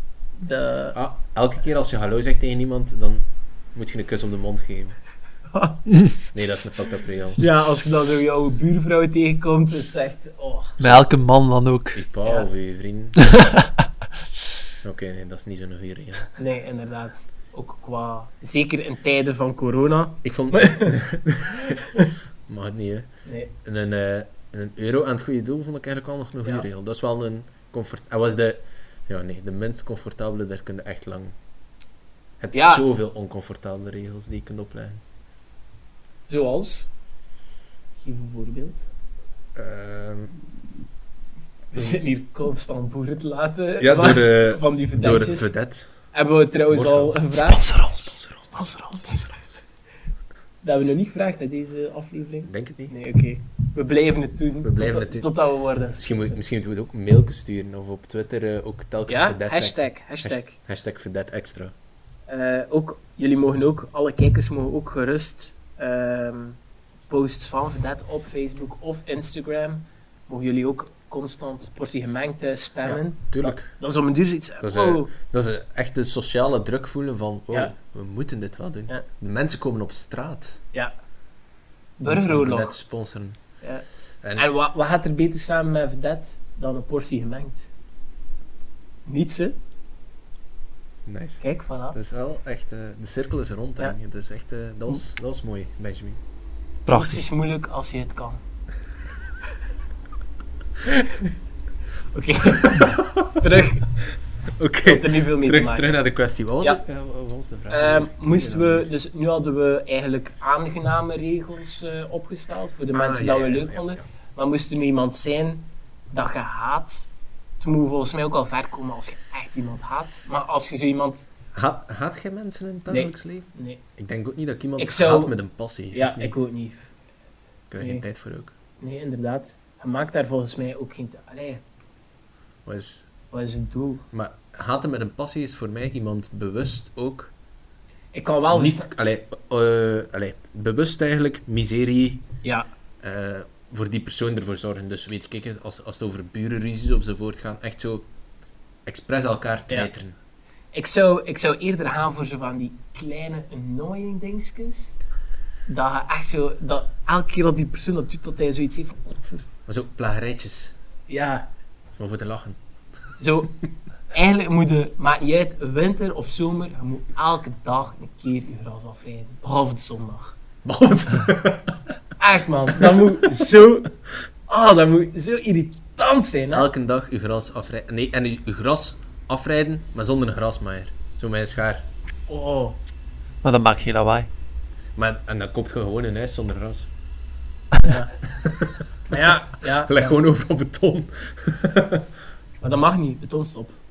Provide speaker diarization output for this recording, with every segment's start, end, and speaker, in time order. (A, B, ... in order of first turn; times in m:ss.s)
0:00.4-0:01.0 A
0:00.9-0:03.2 B
0:03.7-0:05.0 B
0:05.5-0:05.8 A
0:06.3-0:07.4 B
0:07.4-0:10.8 A
0:10.8-0:12.0 C
0:11.9-0:13.4 B
0:14.8-0:16.3 B
0:16.4-0:20.9 A
0:20.2-0:21.8 B
0:21.7-0:22.1 A
0:22.5-0:31.3 B
0:23.2-0:23.5 A
0:32.4-0:35.0 B
0:32.5-0:32.8 A
0:36.3-0:36.9 A
0:38.0-0:38.9 A
0:39.5-0:40.3 B
0:41.7-0:45.5 A
0:43.8-0:45.9 B
0:46.1-0:47.9 A
0:46.7-0:48.6 B
0:48.4-0:49.6 A
0:50.6-0:56.4 A
0:52.4-0:52.9 B
0:54.6-0:55.3 B
0:56.0-1:01.7 B
0:59.1-1:00.6 A
1:02.3-1:06.6 A
1:07.1-1:15.1 A
1:12.8-1:13.8 B
1:14.6-1:20.6 B
1:22.0-1:22.7 A
1:22.1-1:23.4 B
1:23.6-1:27.7 A
1:24.2-1:24.5 B
1:29.0-1:29.6 A
1:31.0-1:36.2 B
1:31.4-1:32.0 A
1:36.8-1:37.2 C
1:36.9-1:38.4 A
1:40.8-1:41.3 A
1:42.1-1:43.9 A
1:42.5-1:43.4 B
1:44.6-1:48.9 B
1:44.8-1:45.9 A
1:47.7-2:01.3 A
1:52.9-1:54.0 B
2:01.5-2:06.3 B
2:02.9-2:03.8 A
2:04.8-2:05.3 A
2:05.9-2:06.9 A
2:07.7-2:08.5 B
2:07.8-2:08.0 A
2:08.8-2:11.6 A
2:12.6-2:13.1 B
2:13.3-2:14.0 A
2:14.1-2:17.3 B
2:18.1-2:18.9 A
2:18.5-2:22.3 B
2:22.4-2:22.7 A
2:23.0-2:28.1 B
2:28.8-2:30.2 B
2:30.7-2:35.0 A
2:35.7-2:39.4 A
2:39.7-2:40.7 B
2:41.1-2:41.5 A
2:42.0-2:42.6 B
2:43.2-2:50.3 A
2:50.6-2:51.8 B
2:52.2-2:53.9 A
2:52.8-2:53.1 B
2:54.5-2:56.7 A
2:56.5-3:01.8 B
3:02.3-3:02.8 A
3:03.4-3:04.3 C
3:05.0-3:06.9 B
3:07.8-3:08.2 A
3:08.4-3:08.7 B
3:09.1-3:10.2 A
3:09.8-3:12.0 B
3:12.6-3:13.8 A